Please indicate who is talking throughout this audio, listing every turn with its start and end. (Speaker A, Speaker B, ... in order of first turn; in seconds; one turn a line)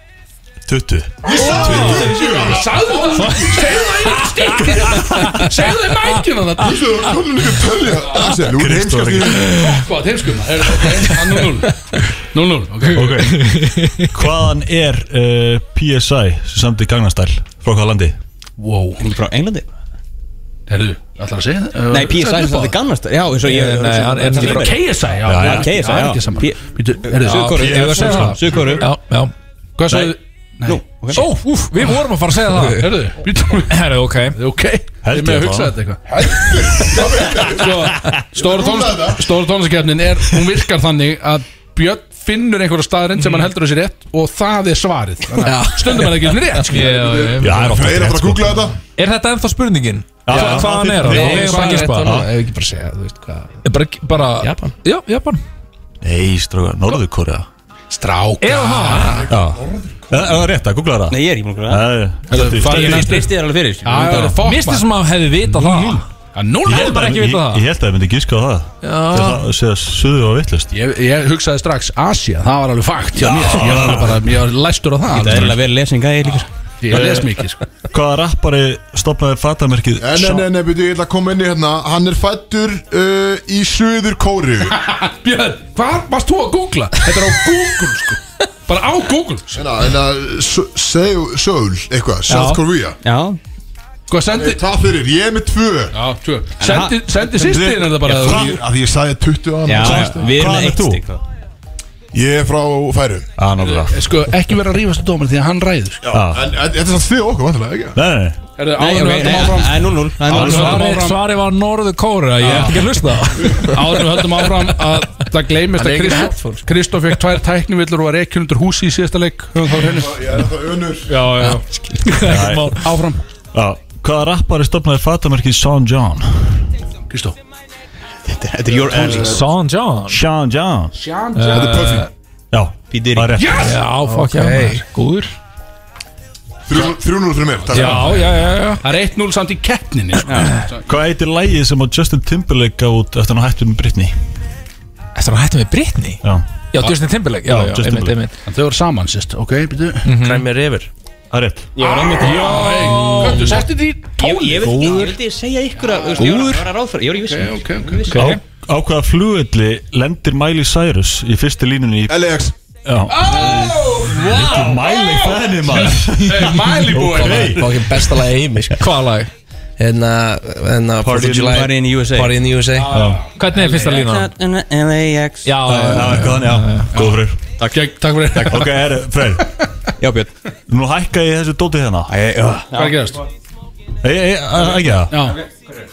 Speaker A: 0.7-2.0
Speaker B: 1.2-6.9
Speaker C: 1.2-3.0
Speaker D: 1.4-2.1
Speaker D: 3.1-5.2
Speaker A: 4.8-5.4
Speaker C: 6.6-9.7
Speaker A: 8.3-9.4
Speaker B: 9.5-13.3
Speaker D: 9.5-9.8
Speaker A: 12.9-18.2
Speaker D: 13.0-14.1
Speaker B: 18.6-19.0
Speaker E: 19.0-19.7
Speaker B: 20.7-22.7
Speaker E: 21.9-28.9
Speaker D: 23.4-24.7
Speaker B: 24.3-28.8
Speaker A: 25.2-26.0
Speaker D: 27.2-29.3
Speaker A: 27.6-28.7
Speaker B: 29.8-30.8
Speaker A: 29.9-30.1
Speaker E: 30.6-31.2
Speaker D: 31.1-33.0
Speaker B: 32.6-46.9
Speaker D: 33.7-34.4
Speaker A: 35.0-35.7
Speaker C: 36.1-39.3
Speaker F: 45.4-46.1
Speaker D: 46.6-47.9
Speaker C: 46.7-48.8
Speaker A: 47.4-48.6
Speaker D: 48.9-52.2
Speaker A: 50.2-52.3
Speaker F: 50.3-53.6
Speaker B: 50.3-51.4
Speaker D: 53.6-55.4
Speaker F: 54.4-54.7
Speaker A: 56.0-57.5
Speaker B: 57.9-59.2
Speaker D: 58.4-59.2
Speaker C: 59.1-60.5
Speaker A: 59.3-63.1
Speaker E: 61.1-64.4
Speaker B: 62.3-63.3
Speaker B: 63.8-64.9
Speaker A: 64.0-64.3
Speaker D: 64.4-66.1
Speaker B: 65.6-67.3
Speaker A: 66.6-70.7
Speaker D: 66.8-67.7
Speaker D: 68.8-69.4
Speaker B: 70.7-75.6
Speaker A: 73.1-74.3
Speaker E: 75.1-76.5
Speaker B: 76.8-77.6
Speaker A: 76.9-77.3
Speaker A: 77.9-80.5
Speaker C: 80.0-84.8
Speaker B: 84.7-89.7
Speaker C: 89.5-93.0
Speaker D: 92.3-92.6
Speaker E: 93.0-93.4
Speaker B: 94.1-94.6
Speaker C: 94.3-96.0
Speaker B: 95.9-98.6
Speaker E: 96.6-97.0
Speaker A: 97.3-98.6
Speaker C: 98.1-100.3
Speaker E: 99.6-101.2
Speaker A: 99.8-101.0
Speaker C: 102.1-103.3
Speaker A: 103.4-103.9
Speaker B: 103.6-106.1
Speaker A: 106.1-106.5
Speaker C: 106.1-108.0
Speaker A: 107.9-108.4
Speaker B: 108.6-111.2
Speaker E: 108.8-110.9
Speaker A: 110.3-110.8
Speaker D: 110.4-115.2
Speaker B: 112.4-120.3
Speaker F: 115.7-116.6
Speaker C: 119.8-121.2
Speaker D: 121.1-122.9
Speaker A: 122.2-122.8
Speaker B: 122.8-123.2
Speaker A: 123.5-126.7
Speaker B: 127.1-127.4
Speaker E: 128.2-129.5
Speaker C: 128.7-129.4
Speaker A: 128.9-129.3
Speaker D: 129.2-130.2
Speaker A: 130.1-130.9
Speaker B: 130.9-132.0
Speaker D: 131.3-132.1
Speaker C: 131.5-132.1
Speaker A: 132.5-133.7
Speaker E: 132.9-133.3
Speaker B: 133.4-133.8
Speaker D: 133.6-135.3
Speaker F: 134.0-134.8
Speaker C: 136.7-138.3
Speaker B: 137.7-140.9
Speaker D: 137.7-138.8
Speaker E: 140.2-140.5
Speaker A: 140.8-144.2
Speaker D: 145.2-146.2
Speaker A: 146.2-148.2
Speaker D: 146.7-148.3
Speaker B: 148.4-150.1
Speaker D: 150.0-150.5
Speaker F: 150.1-150.9
Speaker A: 151.3-151.8
Speaker E: 151.7-153.6
Speaker D: 152.0-153.7
Speaker B: 152.2-155.0
Speaker E: 154.2-158.2
Speaker D: 154.6-155.2
Speaker B: 155.9-156.5
Speaker D: 156.2-156.6
Speaker B: 157.2-158.2
Speaker D: 158.1-158.4
Speaker A: 158.1-167.9
Speaker C: 162.1-162.5
Speaker B: 163.1-167.7
Speaker F: 167.1-168.9
Speaker D: 168.8-169.3
Speaker F: 169.8-173.0
Speaker A: 171.0-171.7
Speaker E: 171.2-172.4
Speaker B: 172.7-173.4
Speaker A: 172.9-173.2
Speaker D: 173.3-174.3
Speaker E: 173.5-175.5
Speaker D: 175.4-176.9
Speaker A: 175.6-177.4
Speaker B: 176.9-179.7
Speaker E: 177.6-177.8
Speaker A: 178.4-179.5
Speaker E: 180.0-180.3
Speaker A: 180.7-182.1
Speaker E: 182.1-183.2
Speaker B: 182.7-183.2
Speaker A: 184.0-185.3
Speaker E: 184.7-185.7
Speaker B: 185.1-185.4